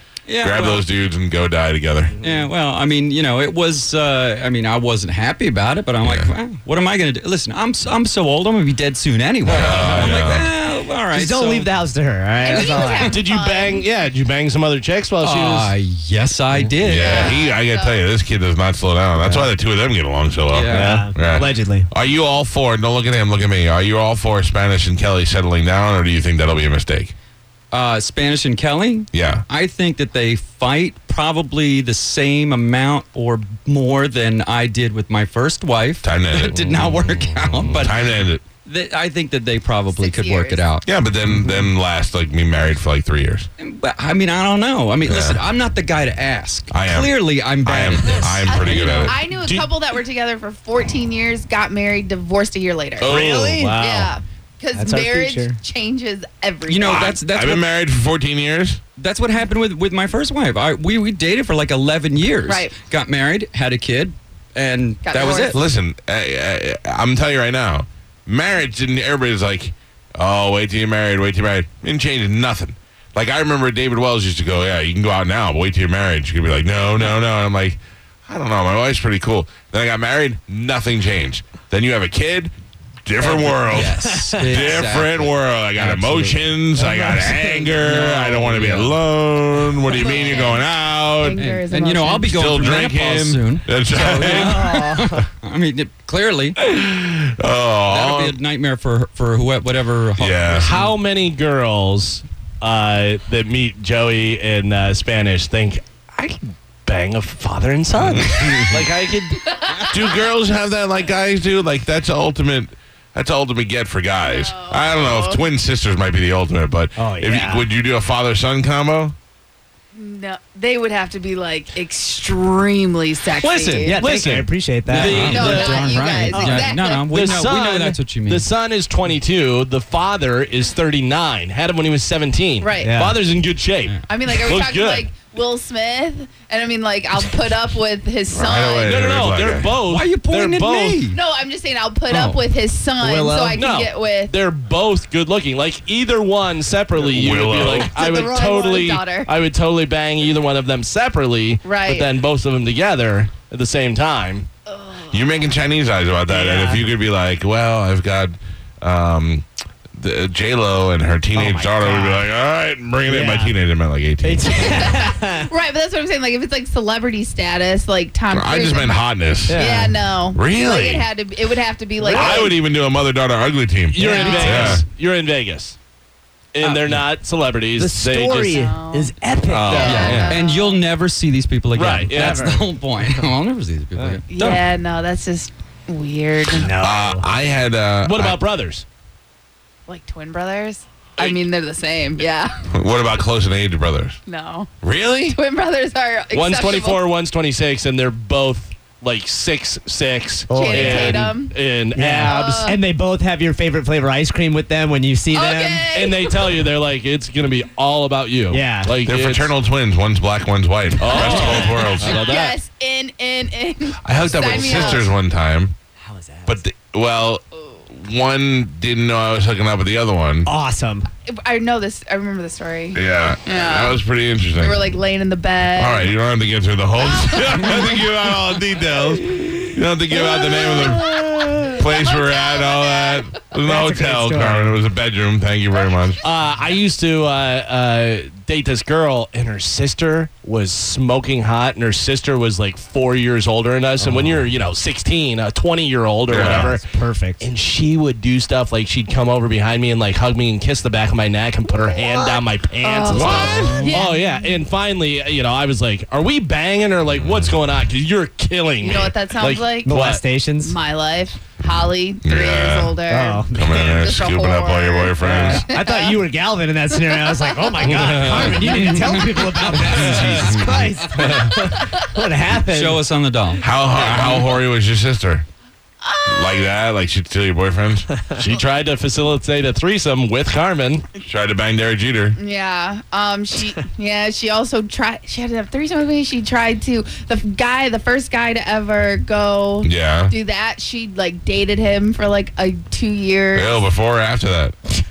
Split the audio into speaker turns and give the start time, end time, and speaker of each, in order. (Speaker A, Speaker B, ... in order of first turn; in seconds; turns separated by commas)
Speaker A: 0.3-0.9, Speaker B: 0.4-2.1, Speaker A: 2.2-11.7, Speaker C: 2.2-2.5, Speaker B: 6.0-6.3, Speaker C: 9.5-10.2, Speaker B: 9.5-10.5, Speaker D: 11.1-13.2, Speaker E: 12.4-13.9, Speaker A: 12.4-13.1, Speaker C: 13.0-15.7, Speaker A: 15.2-17.4, Speaker B: 16.8-27.1, Speaker E: 16.9-18.1, Speaker D: 19.2-19.5, Speaker A: 20.5-21.1, Speaker D: 20.7-21.9, Speaker A: 27.7-38.0, Speaker B: 29.1-29.4, Speaker B: 36.0-36.6, Speaker C: 36.5-37.8, Speaker B: 37.8-38.4, Speaker A: 38.6-40.8, Speaker E: 39.9-40.6, Speaker B: 40.8-43.5, Speaker A: 43.6-49.2, Speaker B: 45.0-45.4, Speaker B: 46.7-49.2, Speaker E: 48.5-53.1, Speaker C: 49.4-49.7, Speaker B: 53.0-53.6, Speaker D: 53.0-54.1, Speaker E: 53.8-57.1, Speaker D: 54.7-55.6, Speaker A: 56.6-57.7, Speaker B: 56.8-58.8, Speaker A: 59.0-65.6, Speaker E: 62.5-62.7, Speaker E: 65.0-65.6, Speaker B: 65.5-82.5, Speaker B: 83.0-91.4, Speaker A: 83.2-86.5, Speaker D: 83.3-84.7, Speaker D: 86.7-87.8, Speaker A: 87.8-89.0, Speaker E: 89.9-90.6, Speaker E: 91.2-92.4, Speaker A: 91.3-96.5, Speaker B: 92.3-94.6, Speaker D: 94.2-95.3, Speaker B: 96.6-98.4, Speaker A: 97.9-100.9, Speaker B: 100.2-100.7, Speaker C: 100.5-109.4, Speaker B: 108.0-108.8, Speaker E: 109.5-110.2, Speaker B: 109.9-119.1, Speaker E: 114.2-115.4, Speaker D: 117.0-117.7, Speaker E: 119.9-124.0, Speaker C: 123.3-125.9, Speaker D: 123.8-125.5, Speaker A: 124.8-128.5, Speaker E: 125.1-127.2, Speaker D: 126.3-126.7, Speaker C: 127.0-135.1, Speaker E: 132.6-133.0, Speaker D: 132.8-133.2, Speaker E: 134.1-139.0, Speaker B: 138.3-139.7, Speaker C: 138.8-141.1, Speaker A: 139.9-141.2, Speaker E: 141.1-144.3, Speaker A: 142.1-142.4, Speaker D: 143.0-143.6, Speaker C: 143.5-154.5, Speaker B: 147.1-147.9, Speaker D: 147.6-148.5, Speaker E: 147.8-149.3, Speaker E: 151.6-152.1, Speaker E: 154.7-155.4, Speaker B: 155.1-164.7, Speaker D: 156.3-156.8, Speaker D: 161.3-162.2, Speaker D: 163.1-163.5, Speaker D: 164.2-165.5, Speaker E: 164.7-172.6, Speaker B: 168.3-169.7, Speaker D: 169.5-169.9, Speaker B: 170.3-171.1, Speaker D: 172.0-172.5, Speaker B: 172.1-174.8, Speaker C: 173.9-175.8, Speaker E: 174.0-174.7, Speaker D: 174.0-174.4, Speaker A: 174.0-174.8, Speaker C: 176.5-178.6, Speaker D: 176.6-177.0, Speaker D: 177.8-180.3, Speaker E: 178.5-179.1, Speaker B: 179.5-180.1, Speaker E: 179.7-180.8, Speaker A: 179.7-184.7, Speaker C: 179.9-180.4, Speaker C: 181.7-182.5, Speaker D: 182.1-182.6, Speaker E: 184.3-186.7, Speaker D: 186.5-187.3, Speaker B: 186.7-188.4, Speaker C: 188.0-188.8, Speaker E: 189.9-192.5, Speaker B: 192.7-194.2, Speaker E: 194.2-194.7, Speaker B: 194.8-195.4, Speaker E: 195.3-197.0, Speaker C: 196.3-202.4, Speaker D: 200.5-201.4, Speaker E: 200.5-201.6, Speaker D: 201.9-205.9, Speaker E: 202.2-202.8, Speaker E: 205.3-206.6, Speaker C: 205.9-209.5, Speaker D: 208.5-209.0, Speaker B: 209.0-212.4, Speaker C: 211.0-212.6, Speaker E: 211.0-215.1, Speaker B: 214.0-215.7, Speaker D: 214.6-215.0, Speaker D: 216.0-216.6, Speaker B: 216.5-220.5, Speaker E: 217.5-217.8, Speaker D: 220.4-221.1, Speaker E: 221.3-224.0, Speaker B: 222.9-224.8, Speaker E: 224.6-226.1, Speaker B: 225.8-236.2, Speaker E: 227.0-228.0, Speaker D: 230.3-231.8, Speaker E: 231.6-233.3, Speaker D: 233.6-234.8, Speaker C: 236.2-246.8, Speaker B: 246.3-246.7, Speaker D: 246.3-247.4, Speaker C: 247.4-260.2, Speaker E: 252.0-254.6, Speaker A: 253.6-253.9, Speaker B: 257.1-257.5, Speaker E: 258.8-260.0, Speaker D: 259.8-260.8, Speaker E: 260.6-266.2, Speaker B: 262.2-262.9, Speaker D: 263.1-264.0, Speaker B: 263.5-265.6, Speaker D: 265.2-273.0, Speaker E: 267.1-267.9, Speaker C: 267.8-269.1, Speaker A: 268.3-270.9, Speaker C: 269.8-270.4, Speaker B: 269.9-270.7, Speaker C: 271.1-271.6, Speaker A: 272.7-273.7, Speaker B: 273.6-275.4, Speaker E: 273.9-274.5, Speaker E: 276.0-276.7, Speaker B: 276.3-278.1, Speaker C: 278.4-281.0, Speaker B: 281.2-282.4, Speaker E: 282.4-293.8, Speaker B: 289.8-290.3, Speaker B: 293.5-294.7